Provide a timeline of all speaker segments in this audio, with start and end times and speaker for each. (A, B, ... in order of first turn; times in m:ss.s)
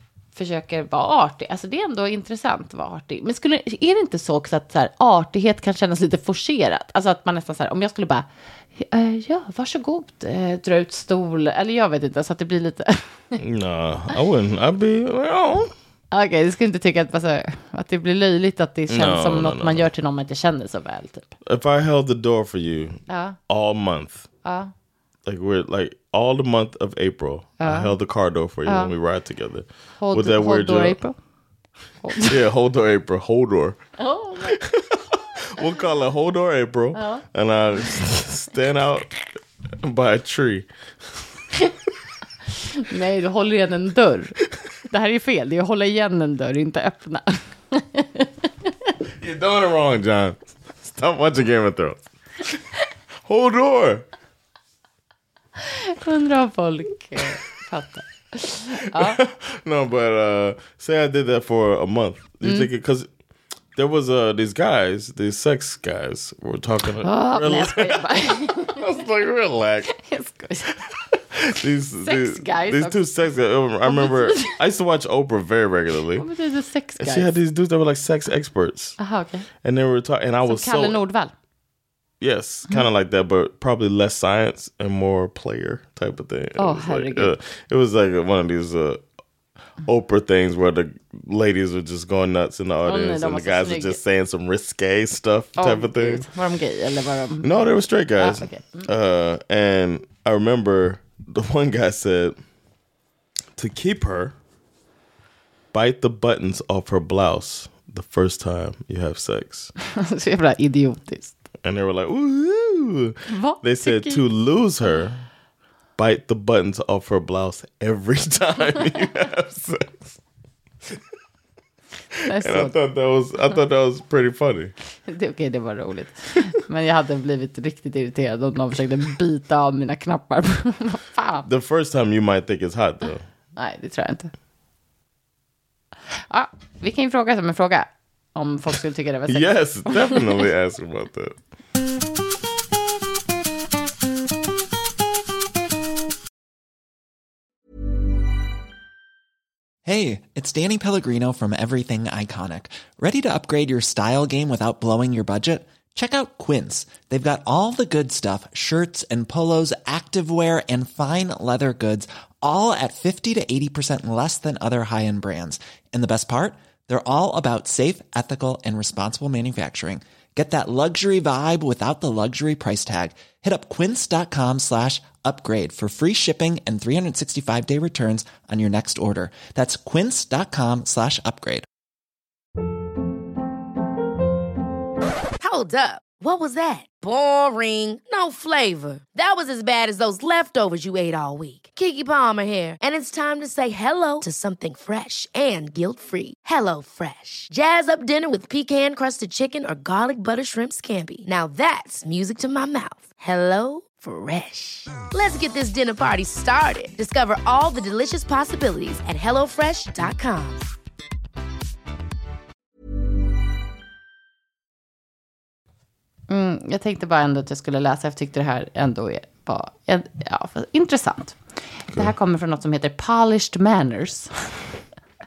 0:00.4-0:13.4 A
0:13.4-0:15.7 B
0:16.1-0:21.3 A
0:18.9-0:19.9 B
0:21.4-0:24.3 B
0:23.1-0:23.4 A
0:24.4-0:24.7 A
0:25.2-0:31.0 B
0:27.6-0:27.9 A
0:28.7-0:28.9 A
0:30.0-0:31.2 A
0:32.0-0:32.4 A
0:32.1-0:33.8 B
0:34.0-0:34.6 A
0:34.4-0:39.1 B
0:36.9-0:37.2 A
0:39.8-0:40.7 B
0:42.7-0:44.4 A
0:44.9-0:48.7 A
0:49.2-0:52.0 B
0:53.2-0:54.0 B
0:55.6-0:59.2 A
0:58.7-1:03.1 B
1:02.4-1:02.7 A
1:03.8-1:09.9 B
1:07.0-1:08.8 A
1:09.9-1:10.8 A
1:10.7-1:16.2 B
1:12.0-1:13.0 A
1:13.9-1:14.6 A
1:16.2-1:17.4 A
1:17.0-1:19.0 B
1:19.0-1:19.5 A
1:19.6-1:21.0 B
1:20.4-1:21.3 A
1:22.2-1:29.0 B
1:26.6-1:27.3 A
1:29.8-1:36.2 B
1:32.8-1:34.0 A
1:35.6-1:37.6 A
1:37.4-1:42.4 B
1:38.2-1:38.9 A
1:43.6-1:44.4 B
1:45.7-1:49.7 B
1:49.8-1:51.4 A
1:51.6-1:55.3 B
1:53.3-1:54.2 A
1:56.0-2:00.2 B
2:02.2-2:04.7 B
2:02.2-2:02.8 A
2:05.1-2:11.5 A
2:11.5-2:13.2 B
2:13.6-2:14.3 A
2:16.3-2:20.3 A
2:19.3-2:21.4 B
2:29.8-3:01.7 C
3:05.4-3:30.7 D
3:36.3-3:44.3 A